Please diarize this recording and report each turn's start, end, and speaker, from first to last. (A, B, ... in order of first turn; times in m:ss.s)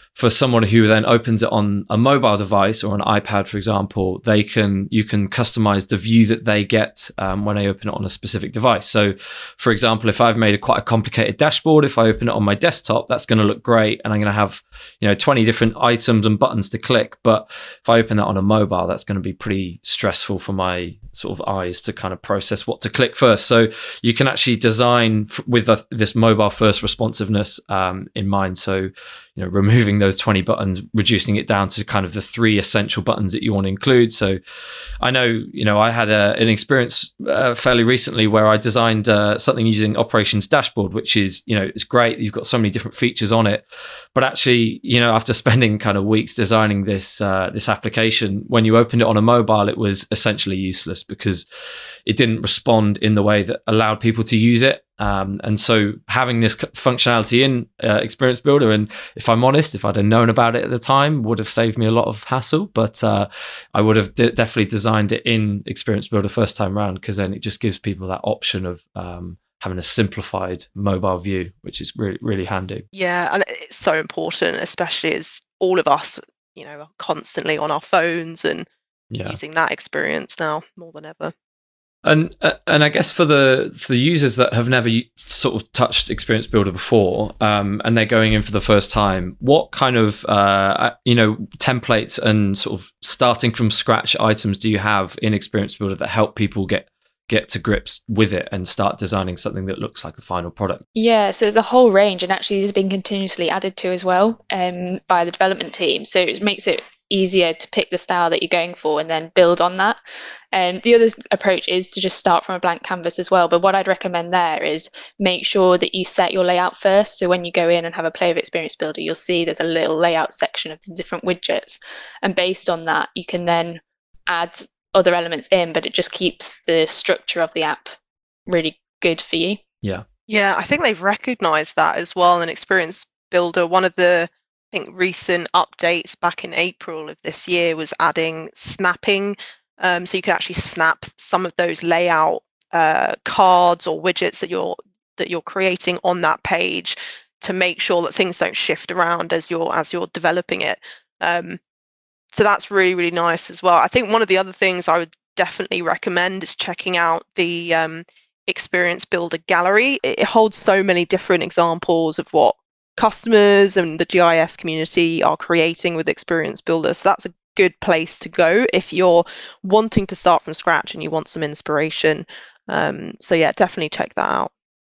0:00.1-0:34.4 A
0:35.0-0:43.6 A
0:44.1-0:51.4 A
0:52.1-1:12.8 A
1:12.9-1:18.7 B
1:19.1-1:19.4 A
1:19.2-1:21.3 B
1:22.0-1:40.8 A
1:40.9-1:50.0 C
1:50.5-2:07.9 C
2:08.5-2:09.6 C
2:10.3-2:31.6 B
2:32.3-2:54.5 B